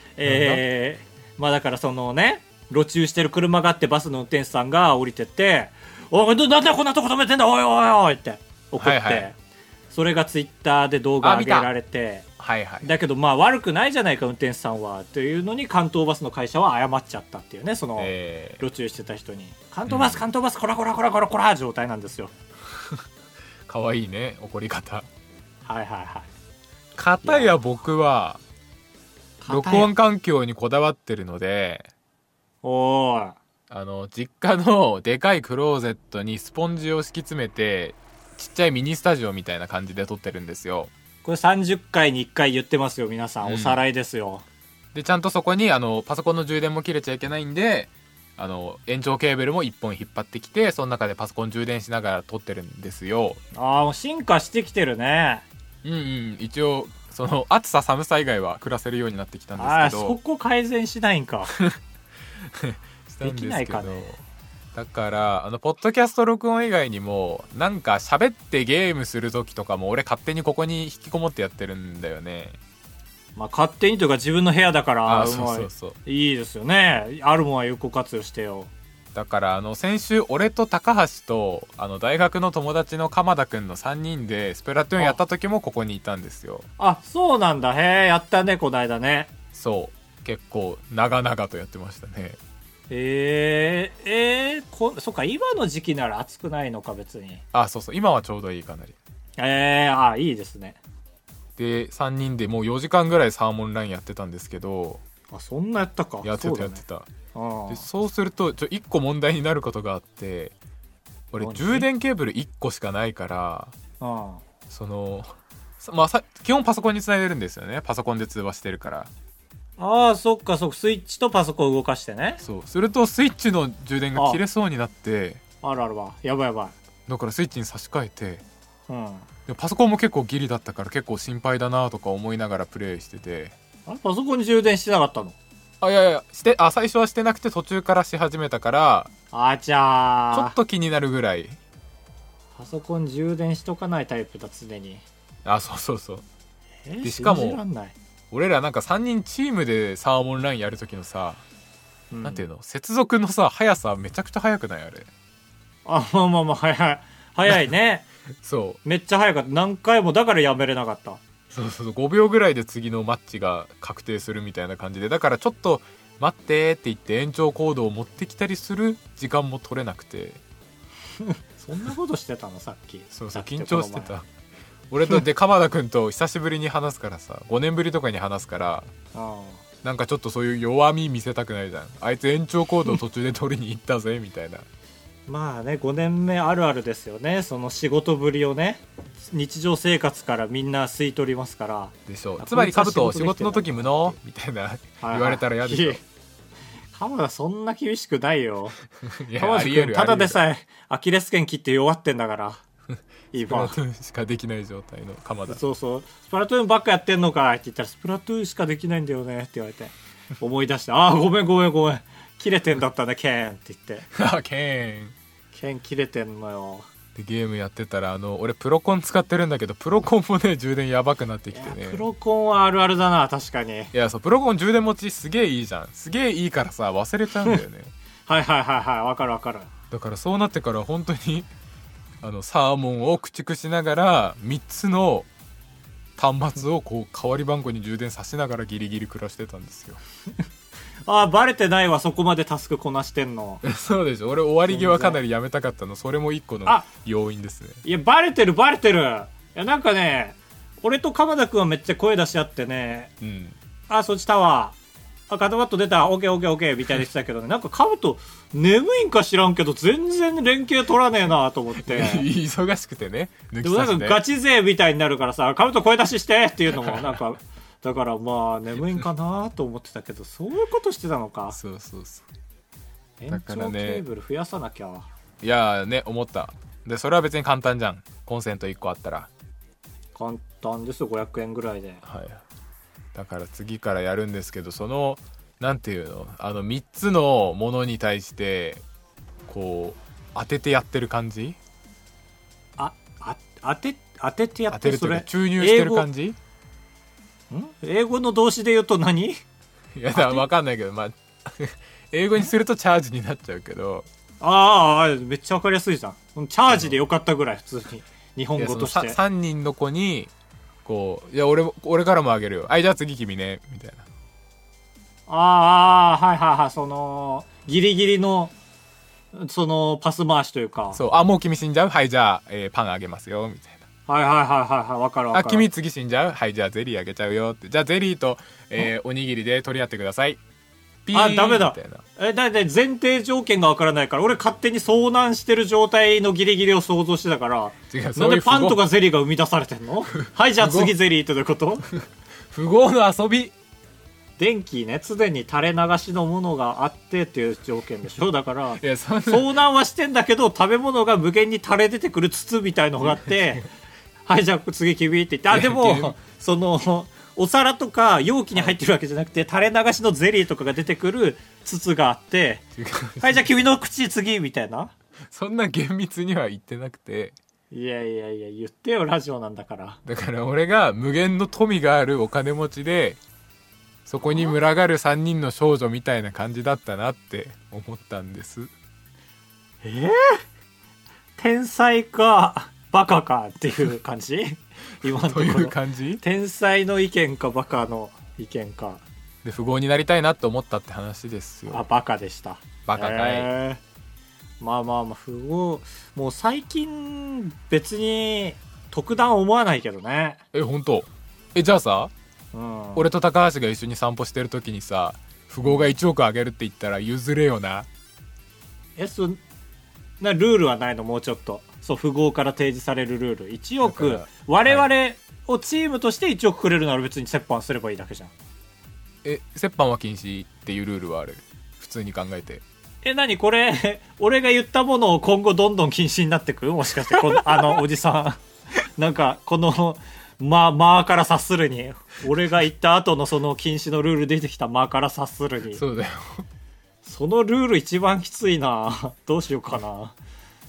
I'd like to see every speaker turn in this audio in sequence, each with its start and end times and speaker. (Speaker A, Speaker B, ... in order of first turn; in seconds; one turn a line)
Speaker A: 0.2-9.4
Speaker B: 0.2-0.6
Speaker B: 8.8-9.3
Speaker A: 9.9-12.2
Speaker B: 11.2-11.7
Speaker B: 12.4-12.9
Speaker A: 12.8-22.3
Speaker B: 18.0-18.6
Speaker B: 19.9-20.2
Speaker B: 22.7-23.0
Speaker B: 23.7-25.1
Speaker A: 25.6-26.3
Speaker B: 26.9-28.4
Speaker A: 27.2-27.6
Speaker A: 29.4-29.9
Speaker B: 29.5-31.9
Speaker A: 32.6-33.4
Speaker B: 33.7-40.9
Speaker A: 41.2-44.4
Speaker B: 43.4-43.8
Speaker B: 44.9-53.4
Speaker A: 53.5-55.5
Speaker B: 55.8-60.2
Speaker A: 59.6-61.5
Speaker B: 62.4-64.2
Speaker A: 63.2-64.1
Speaker B: 64.7-72.6
Speaker A: 73.3-78.7
Speaker B: 75.0-76.0
Speaker B: 79.1-86.7
Speaker A: 86.8-89.3
Speaker B: 89.5-92.4
Speaker A: 92.9-97.4
Speaker B: 97.5-99.0
Speaker A: 99.4-100.8
Speaker B: 101.6-105.0
Speaker A: 105.3-106.8
Speaker B: 106.2-107.1
Speaker A: 107.3-107.8
Speaker B: 107.7-110.5
Speaker B: 111.3-113.7
Speaker A: 111.4-111.9
Speaker A: 114.0-114.4
Speaker B: 114.7-119.1
Speaker A: 119.8-122.4
Speaker B: 122.4-125.4
Speaker A: 125.6-126.8
Speaker B: 127.1-128.4
Speaker A: 128.9-129.3
Speaker B: 129.5-133.5
Speaker A: 133.8-135.4
Speaker B: 135.8-139.1
Speaker A: 139.3-140.6
Speaker B: 140.3-141.6
Speaker A: 142.6-145.0
Speaker B: 145.4-146.2
Speaker A: 146.8-147.9
Speaker B: 147.0-147.6
Speaker B: 148.3-151.4
Speaker A: 152.1-152.4
Speaker B: 152.2-155.1
Speaker A: 155.8-158.1
Speaker B: 158.4-158.8
Speaker A: 158.8-161.2
Speaker B: 161.5-170.4
Speaker A: 171.2-174.1
Speaker B: 173.1-174.2
Speaker B: 174.9-178.9
Speaker A: 179.1-179.6
Speaker B: 179.8-184.7
Speaker A: 185.3-194.2
Speaker B: 192.1-196.0
Speaker A: 195.0-196.0
Speaker A: 196.9-198.8
Speaker B: 199.0-200.4
Speaker A: 199.3-202.6
Speaker A: 203.3-203.8
Speaker B: 203.4-205.6
Speaker A: 205.5-214.1
Speaker B: 214.1-215.2
Speaker A: 215.5-216.9
Speaker B: 217.1-222.0
Speaker A: 221.5-223.9
Speaker B: 223.9-227.9
Speaker A: 228.3-229.7
Speaker B: 229.9-231.5
Speaker B: 232.2-235.3
Speaker B: 236.2-240.0
Speaker A: 241.1-243.6
Speaker B: 243.6-247.8
Speaker A: 244.7-245.2
Speaker A: 247.8-253.1
Speaker B: 253.2-253.6
Speaker A: 253.9-254.8
Speaker A: 255.3-262.3
Speaker B: 261.7-264.2
Speaker A: 263.6-271.6
Speaker B: 266.7-267.2
Speaker B: 271.5-272.2
Speaker A: 273.2-275.1
Speaker B: 273.3-274.0
Speaker B: 275.4-279.3
Speaker A: 280.1-282.0
Speaker B: 282.0-282.4
Speaker B: 283.1-288.8
Speaker B: 289.5-291.6
Speaker A: 292.8-296.1
Speaker B: 294.7-296.4
Speaker A: 297.5-299.4
Speaker B: 299.9-304.1
Speaker A: 300.1-300.4
Speaker A: 304.4-309.2
Speaker B: 308.6-310.3
Speaker B: 310.8-314.1
Speaker A: 315.3-318.5
Speaker A: 319.3-321.0
Speaker B: 320.9-323.8
Speaker A: 324.1-325.7
Speaker B: 325.3-330.4
Speaker B: 331.0-332.0
Speaker A: 331.1-341.9
Speaker B: 337.9-338.8
Speaker B: 340.6-340.9
Speaker B: 342.5-343.5
Speaker A: 344.4-353.7
Speaker B: 348.8-349.5
Speaker B: 353.1-353.6
Speaker A: 354.2-362.6
Speaker B: 355.5-356.1
Speaker B: 362.8-363.5
Speaker A: 363.2-364.9
Speaker B: 365.3-367.4
Speaker A: 367.7-370.0
Speaker B: 370.0-373.2
Speaker B: 374.1-378.7
Speaker A: 374.2-374.5
Speaker A: 379.8-380.4
Speaker A: 381.4-389.0
Speaker B: 385.0-386.2
Speaker B: 389.4-391.8
Speaker A: 391.7-393.8
Speaker B: 392.9-393.5
Speaker A: 394.6-400.4
Speaker B: 400.5-402.1
Speaker A: 402.5-403.1
Speaker B: 402.9-407.9
Speaker A: 409.0-409.4
Speaker A: 410.2-418.3
Speaker B: 413.8-414.9
Speaker B: 419.2-422.6
Speaker A: 423.0-428.4
Speaker B: 427.1-427.8
Speaker A: 429.0-435.8
Speaker B: 435.7-436.4
Speaker A: 437.0-440.1